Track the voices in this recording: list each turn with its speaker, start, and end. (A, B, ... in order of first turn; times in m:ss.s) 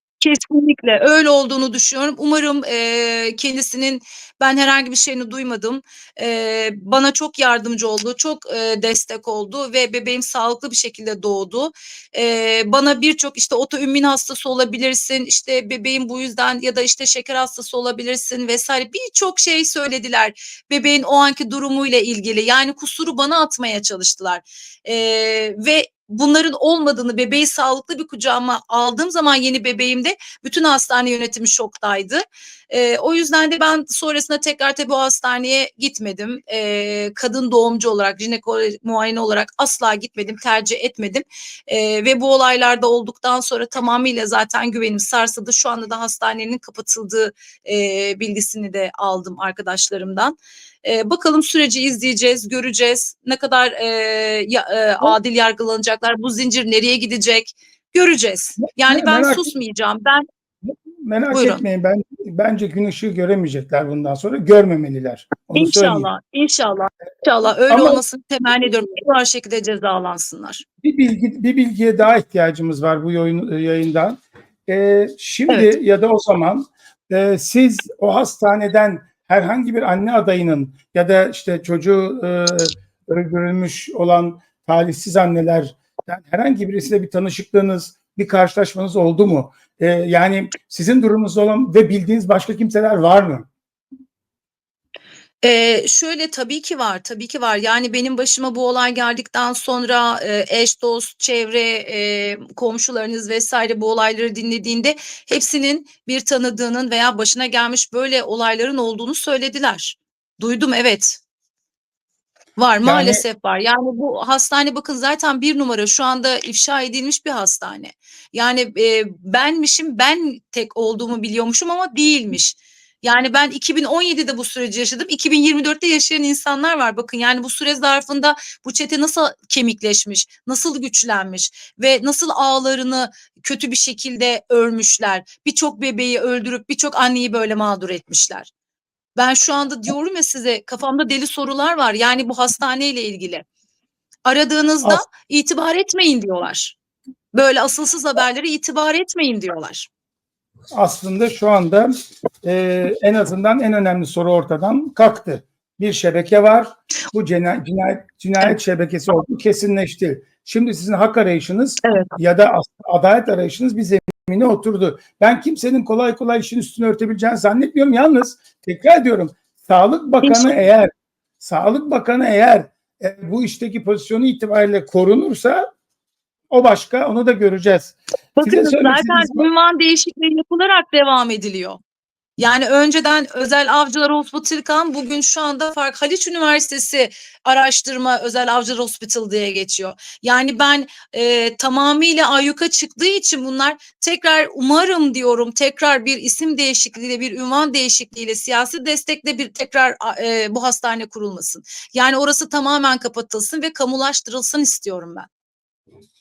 0:00.2-1:00.2 A
0:58.6-0:59.5 B
1:00.6-1:06.1 B
1:01.3-1:01.6 A
1:05.5-1:10.6 A
1:07.7-1:08.0 B
1:10.8-1:33.5 B
1:35.4-1:51.2 A
1:52.6-2:18.5 A
1:52.8-1:53.2 B
2:19.2-2:23.4 A
2:24.2-2:26.8 A
2:27.3-2:29.9 A
2:30.7-2:31.9 B
2:32.4-2:55.7 B
2:41.8-2:42.1 A
2:50.2-2:50.6 A
2:56.5-2:59.5 B
2:58.4-3:01.8 A
3:02.4-3:25.3 A